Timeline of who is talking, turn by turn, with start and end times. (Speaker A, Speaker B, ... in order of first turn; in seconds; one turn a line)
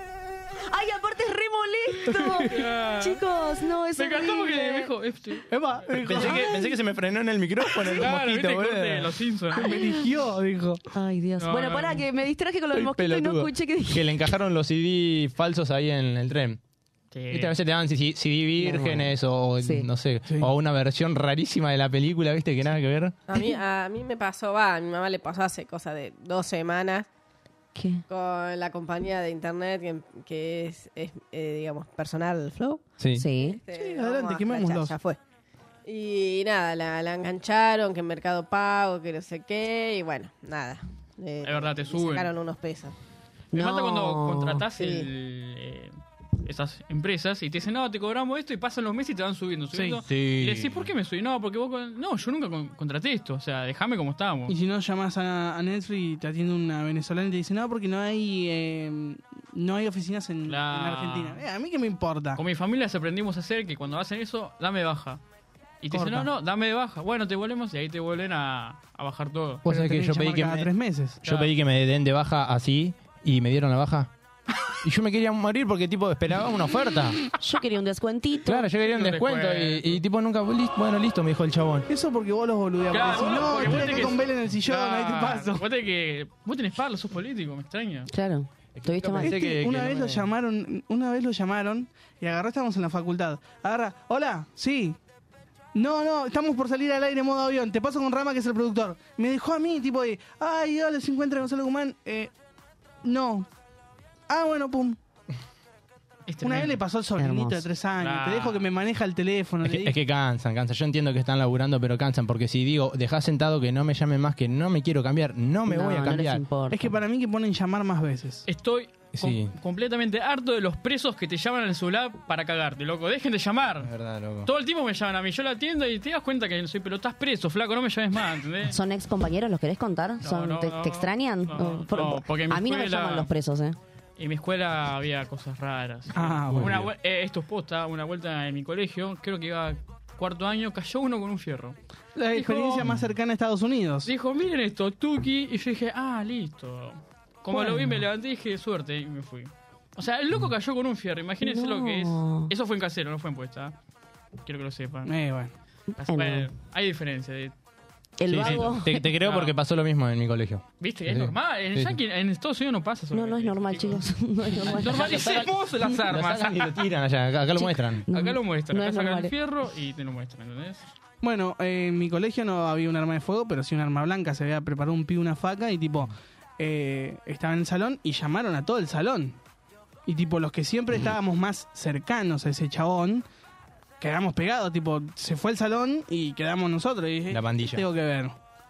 Speaker A: 0.7-4.9
Speaker B: 2.3-3.2
Speaker B: 4.0-5.5
Speaker C: 5.5-6.5
Speaker D: 5.9-9.2
Speaker B: 7.8-9.7
Speaker C: 9.5-10.8
Speaker A: 9.8-10.0
Speaker A: 10.9-14.3
Speaker B: 11.4-12.0
Speaker D: 12.7-16.6
Speaker B: 17.1-17.5
Speaker D: 17.3-23.2
Speaker A: 18.6-19.9
Speaker E: 23.3-27.1
Speaker A: 27.8-28.0
Speaker E: 28.1-32.9
Speaker D: 33.0-33.3
Speaker A: 33.2-33.6
Speaker E: 33.4-35.2
Speaker C: 33.7-35.0
Speaker E: 35.9-42.9
Speaker B: 41.4-42.3
Speaker A: 43.5-44.6
Speaker B: 43.5-45.9
Speaker E: 44.8-45.1
Speaker B: 46.5-54.5
Speaker C: 49.7-50.0
Speaker D: 50.1-50.9
Speaker C: 54.5-62.4
Speaker B: 60.5-61.4
Speaker B: 62.4-65.2
Speaker B: 65.8-69.6
Speaker C: 65.9-66.3
Speaker D: 69.7-70.7
Speaker C: 69.7-71.2
Speaker D: 71.2-74.1
Speaker B: 71.2-71.5
Speaker D: 74.8-77.2
Speaker A: 77.4-78.7
Speaker D: 78.5-81.9
Speaker B: 78.8-80.0
Speaker C: 81.9-85.6
Speaker B: 82.9-88.1
Speaker A: 88.1-89.4
Speaker D: 88.8-90.3
Speaker C: 89.2-95.0
Speaker C: 95.7-102.3
Speaker C: 103.0-103.5
Speaker C: 104.3-105.0
Speaker B: 106.3-106.8
Speaker C: 106.4-110.0
Speaker A: 107.2-107.7
Speaker B: 108.0-108.7
Speaker D: 109.6-116.4
Speaker A: 115.7-116.9
Speaker C: 116.7-118.5
Speaker B: 118.5-123.9
Speaker D: 119.1-119.5
Speaker D: 123.8-124.5
Speaker B: 124.5-128.8
Speaker A: 128.7-133.8
Speaker B: 130.2-133.3
Speaker B: 134.2-141.8
Speaker C: 136.1-136.8
Speaker D: 136.5-136.9
Speaker C: 142.2-144.1
Speaker B: 142.3-142.9
Speaker B: 144.1-153.8
Speaker C: 147.5-148.0
Speaker A: 151.4-152.5
Speaker B: 154.4-155.1
Speaker C: 155.1-155.5
Speaker A: 155.9-156.5
Speaker B: 156.0-157.5
Speaker A: 158.2-159.1
Speaker D: 158.3-162.0
Speaker B: 158.4-159.5
Speaker B: 160.8-164.0
Speaker A: 163.1-165.4
Speaker D: 164.7-168.1
Speaker B: 164.7-166.9
Speaker A: 167.6-169.3
Speaker B: 168.1-170.8
Speaker C: 171.2-179.4
Speaker C: 180.1-183.2
Speaker C: 184.0-188.4
Speaker D: 187.3-187.8